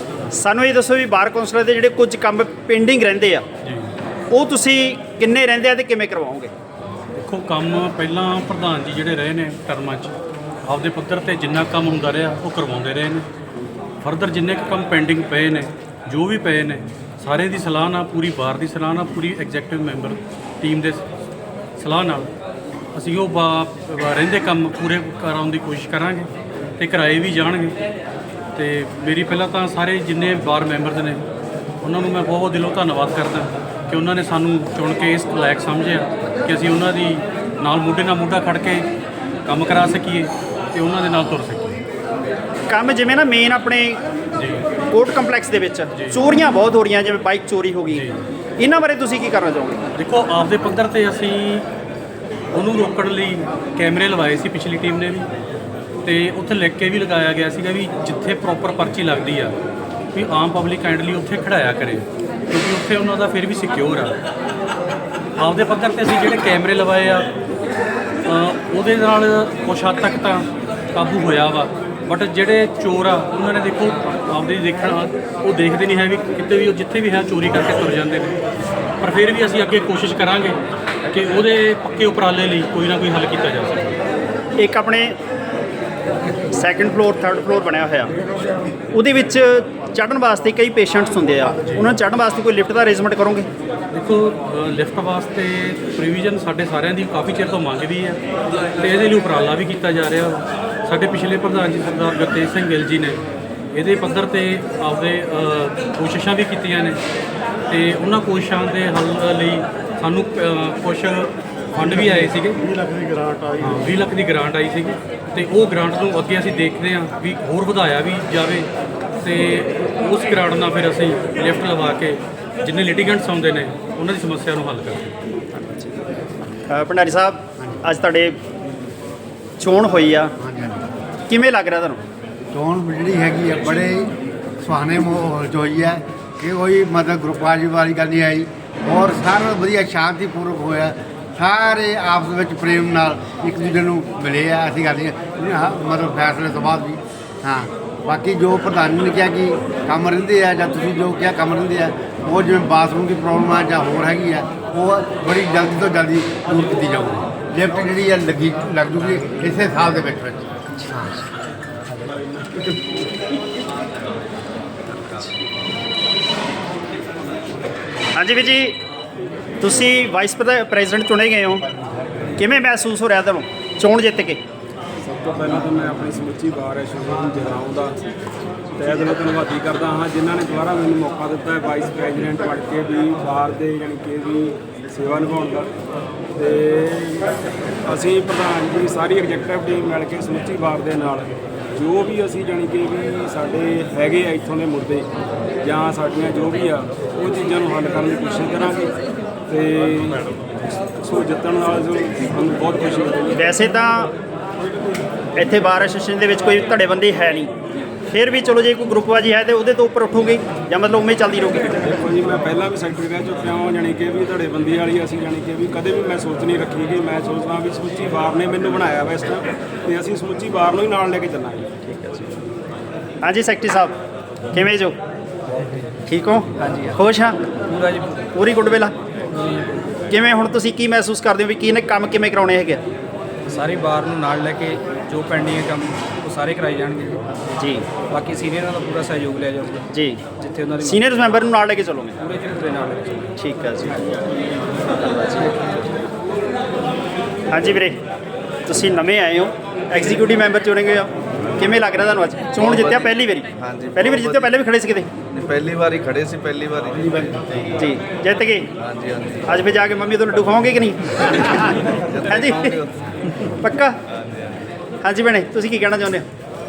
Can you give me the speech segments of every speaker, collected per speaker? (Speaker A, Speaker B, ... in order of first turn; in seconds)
Speaker A: 0.3-3.4, 4.3-6.5, 42.7-44.0, 44.9-48.0, 48.6-49.8, 84.6-85.1, 86.5-88.1, 88.9-93.5, 125.5-125.9, 126.7-128.3, 129.6-130.3, 131.3-132.0, 168.2-168.8, 169.6-171.6, 172.4-174.4, 203.4-204.1, 205.4-207.5, 208.1-211.8, 221.8-222.3, 223.2-223.9, 224.5-224.9, 226.1-227.4, 228.3-228.9, 230.1-232.8, 237.6-237.9, 239.9-240.2, 240.8-242.2, 243.4-243.9, 247.5-248.0, 248.7-255.1, 257.8-258.7, 259.5-262.8, 263.6-264.0, 265.0-266.2
Speaker B: 7.2-10.1, 10.6-13.2, 14.0-21.0, 21.8-22.3, 22.9-27.8, 28.5-31.2, 31.8-38.9, 39.4-41.6, 44.3-44.6, 47.9-48.2, 49.9-51.6, 52.5-55.2, 56.0-59.5, 60.1-64.1, 65.4-67.3, 68.2-78.4, 79.0-83.9, 93.9-98.2, 98.8-103.2, 103.7-107.0, 107.7-112.6, 113.5-118.7, 119.2-125.1
Speaker C: 130.4-130.9, 132.5-161.2
Speaker D: 175.0-178.0, 178.8-185.7, 186.3-187.3, 187.8-195.1, 195.6-198.9, 199.5-200.3, 201.0-203.4, 211.8-221.7
Speaker E: 226.6-227.0, 227.6-228.3, 229.3-229.8, 233.5-237.2, 238.1-241.3, 242.2-243.3, 245.0-245.8
Speaker F: 252.6-254.5, 255.3-257.8, 258.8-259.6, 262.1-262.9